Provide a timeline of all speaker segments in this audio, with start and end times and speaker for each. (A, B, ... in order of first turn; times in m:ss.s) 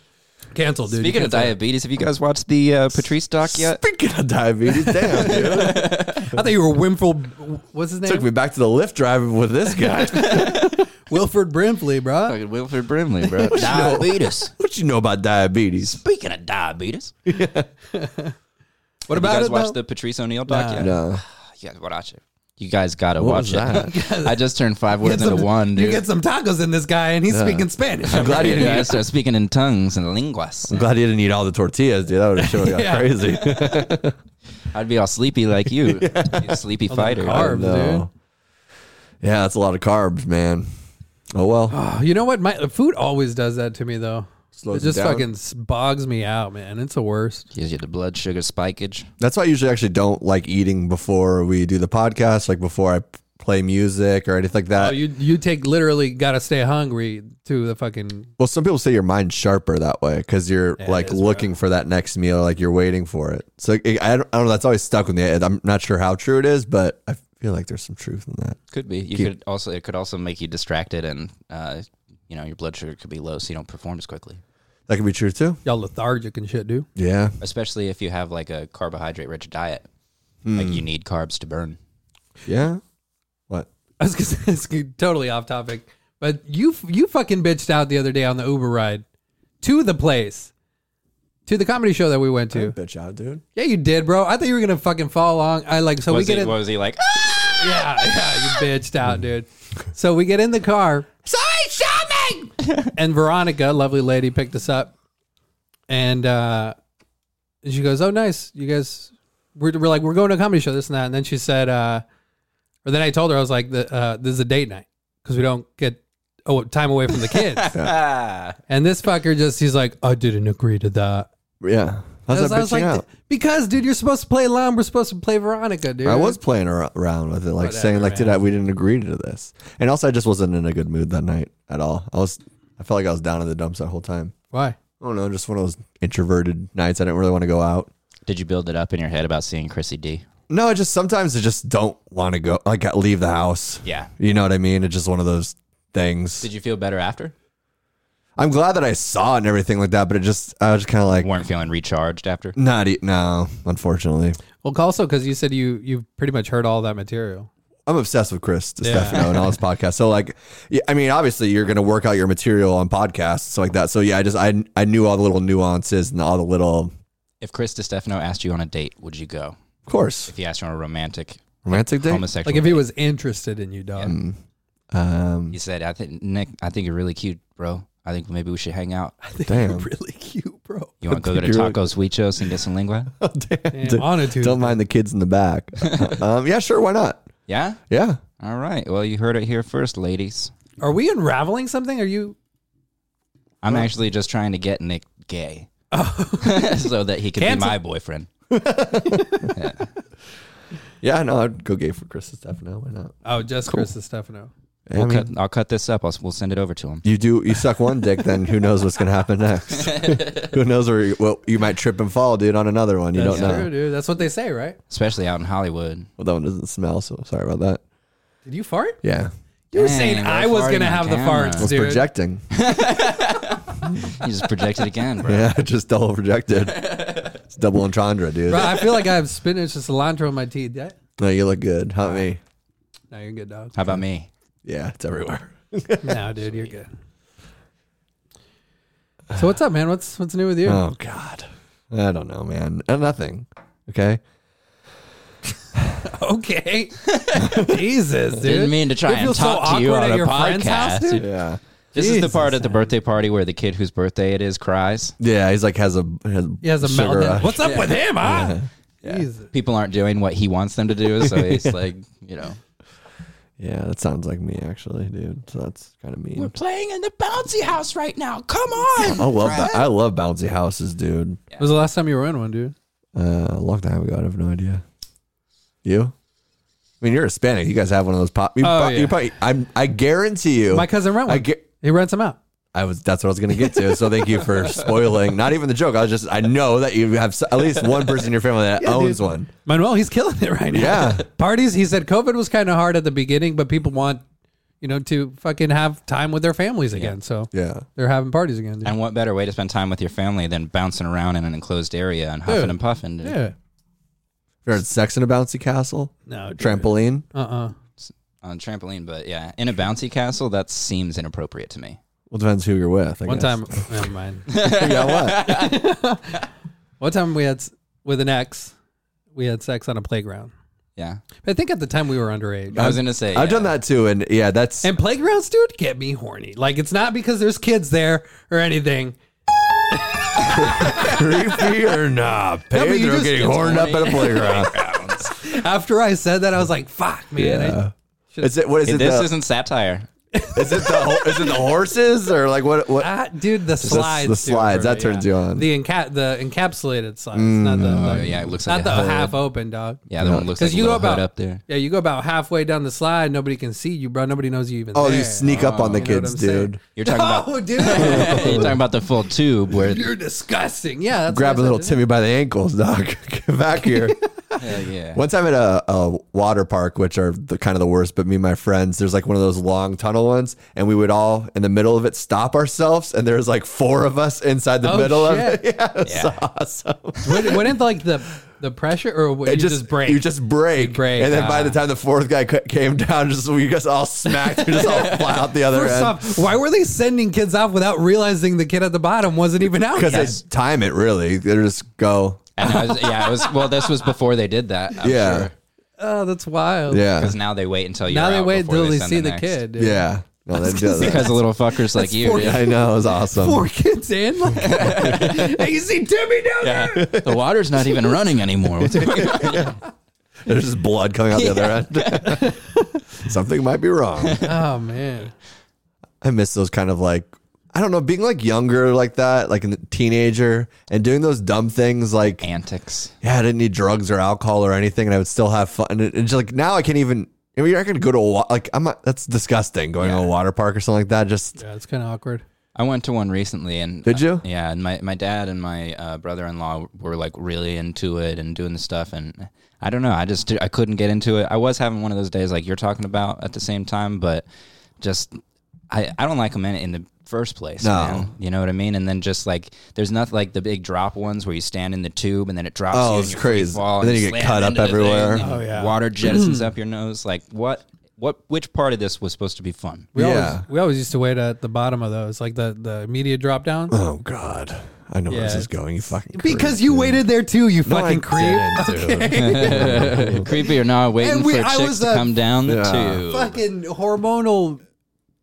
0:00.5-0:01.5 A
0:00.9-0:03.8 B
0:03.4-0:05.8 C
0:05.1-0:06.3 B
0:05.2-0:08.3 A
0:08.0-0:10.8 C
0:10.2-0:10.6 B
0:10.2-0:12.4 A
0:12.2-0:14.5 B
0:13.3-0:16.0 C
0:15.8-0:17.1 B
0:17.3-0:17.7 C
0:17.9-0:18.3 A
0:19.1-0:19.8 A
0:19.1-0:26.0 B
0:20.5-0:20.9 A
0:20.8-0:21.2 C
0:23.2-0:23.9 C
0:23.7-0:24.4 A
0:25.0-0:28.9 A
0:27.3-0:29.0 C
0:28.1-0:30.8 B
0:30.7-0:34.1 C
0:32.4-0:33.6 A
0:34.7-0:37.6 B
0:35.8-0:36.6 C
0:36.9-0:38.0 A
0:37.2-0:38.1 C
0:39.2-0:40.7 C
0:41.3-0:41.8 C
0:41.7-0:47.5 A
0:44.5-0:45.3 C
0:47.5-0:49.1 B
0:49.2-0:55.0 C
0:54.8-0:58.3 A
0:58.4-1:08.6 C
1:00.8-1:01.5 A
1:08.7-1:14.4 B
1:14.9-1:15.6 C
1:15.6-1:16.9 A
1:17.0-1:17.3 C
1:17.4-1:19.9 B
1:20.4-1:20.8 C
1:20.5-1:21.8 B
1:22.4-1:22.8 C
1:24.0-1:29.0 A
1:29.6-1:30.5 A
1:31.4-1:32.8 A
1:32.5-1:33.4 C
1:33.5-1:36.6 A
1:36.1-1:38.6 B
1:37.4-1:44.9 A
1:45.9-1:46.8 A
1:47.6-1:52.0 A
1:52.8-1:57.7 A
1:57.6-1:58.6 B
1:58.7-2:01.3 A
2:01.6-2:03.0 C
2:02.3-2:06.4 A
2:06.0-2:14.3 C
2:07.6-2:08.4 A
2:14.5-2:14.8 A
2:15.0-2:17.9 C
2:18.2-2:20.2 B
2:20.5-2:26.5 C
2:23.8-2:24.1 B
2:26.4-2:27.3 B
2:28.4-2:31.3 C
2:31.2-2:32.6 B
2:32.6-2:34.4 C
2:34.6-2:37.5 A
2:37.9-2:46.9 C
2:38.8-2:39.2 A
2:39.1-2:39.4 B
2:47.4-2:49.6 B
2:49.9-2:50.3 C
2:50.2-2:52.8 B
2:51.6-2:52.2 C
2:52.4-2:54.1 A
2:54.0-2:54.4 C
2:54.9-2:55.6 C
2:55.5-2:59.1 B
2:59.2-3:00.9 A
2:59.4-2:59.9 C
3:01.0-3:03.1 B
3:01.1-3:01.8 C
3:03.2-3:07.2 C
3:03.7-3:04.8 A
3:05.8-3:06.2 B
3:07.5-3:07.8 B
3:07.9-3:08.2 C
3:08.4-3:10.5 B
3:10.8-3:12.4 A
3:13.6-3:15.7 B
3:15.9-3:16.7 A
3:16.4-3:18.3 B
3:17.4-3:17.8 A
3:18.5-3:19.5 C
3:19.1-3:19.5 A
3:19.5-3:19.9 B
3:21.0-3:23.1 C
3:23.2-3:24.5 A
3:24.9-3:25.3 C
3:24.9-3:27.0 B
3:27.0-3:33.7 C
3:29.8-3:30.5 B
3:33.1-3:34.8 A
3:33.3-3:33.7 B
3:34.9-3:36.1 B
3:36.2-3:37.8 C
3:38.4-3:39.0 A
3:39.0-3:39.3 C
3:39.7-3:42.0 A
3:39.7-3:41.7 B
3:41.6-3:42.4 C
3:42.5-3:45.5 B
3:45.2-3:48.9 C
3:46.6-3:47.3 B
3:48.5-3:50.9 A
3:51.2-3:52.4 C
3:53.1-3:53.7 A
3:53.7-3:54.3 B
3:54.6-3:56.2 C
3:56.0-3:56.9 A
3:59.3-4:00.8 A
4:00.6-4:04.2 C
4:06.0-4:11.2 A
4:07.1-4:07.5 B
4:08.4-4:11.3 B
4:11.2-4:11.6 C
4:11.9-4:12.9 A
4:11.9-4:15.1 B
4:15.2-4:17.7 C
4:16.6-4:19.5 A
4:17.6-4:18.0 B
4:18.2-4:18.7 C
4:19.0-4:22.6 B
4:21.2-4:21.7 C
4:23.6-4:26.5 C
4:26.3-4:29.9 B
4:29.0-4:31.4 C
4:31.6-4:32.7 A
4:33.1-4:34.8 C
4:35.8-4:36.1 C
4:37.0-4:41.6 C
4:38.6-4:39.2 A
4:40.7-4:42.4 A
4:42.7-4:49.5 C
4:48.8-4:54.2 A
4:50.7-4:51.2 C
4:54.8-4:58.9 A
4:57.5-4:57.8 C
4:58.8-5:03.4 B
5:02.5-5:03.5 A
5:04.6-5:07.2 C
5:06.3-5:07.7 A
5:08.0-5:12.0 B
5:12.3-5:13.8 C
5:13.2-5:14.5 A
5:14.5-5:15.8 B
5:14.5-5:15.5 C
5:15.4-5:16.4 A
5:17.0-5:18.7 A
5:19.3-5:20.5 A
5:21.0-5:21.2 B
5:21.4-5:22.9 A
5:22.7-5:23.8 B
5:22.7-5:24.9 C
5:24.8-5:29.2 A
5:29.9-5:31.3 A
5:30.5-5:34.7 C
5:32.7-5:37.8 A
5:33.3-5:35.3 B
5:37.4-5:39.3 C
5:38.8-5:40.1 B
5:40.3-5:41.7 A
5:40.5-5:43.1 C
5:43.0-5:58.8 A
5:43.8-5:45.7 C
5:47.3-5:48.5 C
5:47.8-5:49.4 B
5:50.1-5:51.6 B
5:50.2-5:50.5 C
5:54.9-5:56.8 C
5:55.5-5:56.1 B
5:57.0-6:00.1 B
5:57.9-5:58.8 C
5:59.7-6:02.0 A
6:01.3-6:04.2 C
6:04.6-6:05.2 B
6:05.1-6:17.7 C
6:14.8-6:15.6 A
6:16.0-6:16.4 B
6:17.2-6:21.8 A
6:19.4-6:26.4 C
6:24.8-6:25.4 B
6:25.6-6:30.4 A
6:29.9-6:32.7 C
6:32.6-6:35.5 B
6:35.0-6:35.5 C
6:36.0-6:37.1 A
6:36.9-6:37.3 C
6:37.2-6:39.6 B
6:38.1-6:47.1 A
6:39.8-6:41.4 C
6:40.7-6:42.7 B
6:42.1-6:43.6 C
6:44.5-6:45.5 B
6:44.9-6:45.3 C
6:46.6-6:49.7 B
6:46.9-6:47.4 C
6:48.8-6:49.8 C
6:49.1-6:49.6 A
6:50.4-6:52.6 C
6:51.3-6:52.4 B
6:53.1-6:54.4 C
6:54.2-6:54.5 B
6:54.4-6:55.3 A
6:56.2-7:02.4 C
7:02.4-7:03.1 B
7:03.2-7:11.6 C
7:10.0-7:10.3 B
7:11.6-7:12.4 A
7:12.7-7:24.4 B
7:14.0-7:14.4 C
7:25.0-7:25.4 B
7:25.9-7:40.1 B
7:27.8-7:28.3 C
7:32.9-7:35.5 C
7:35.4-7:36.6 A
7:40.1-7:40.6 C
7:40.1-7:44.0 A
7:43.9-7:47.2 C
7:45.3-7:45.7 A
7:46.3-7:52.3 A
7:47.8-7:50.5 C
7:49.3-7:53.5 B
7:52.6-7:53.2 C
7:53.3-7:54.8 A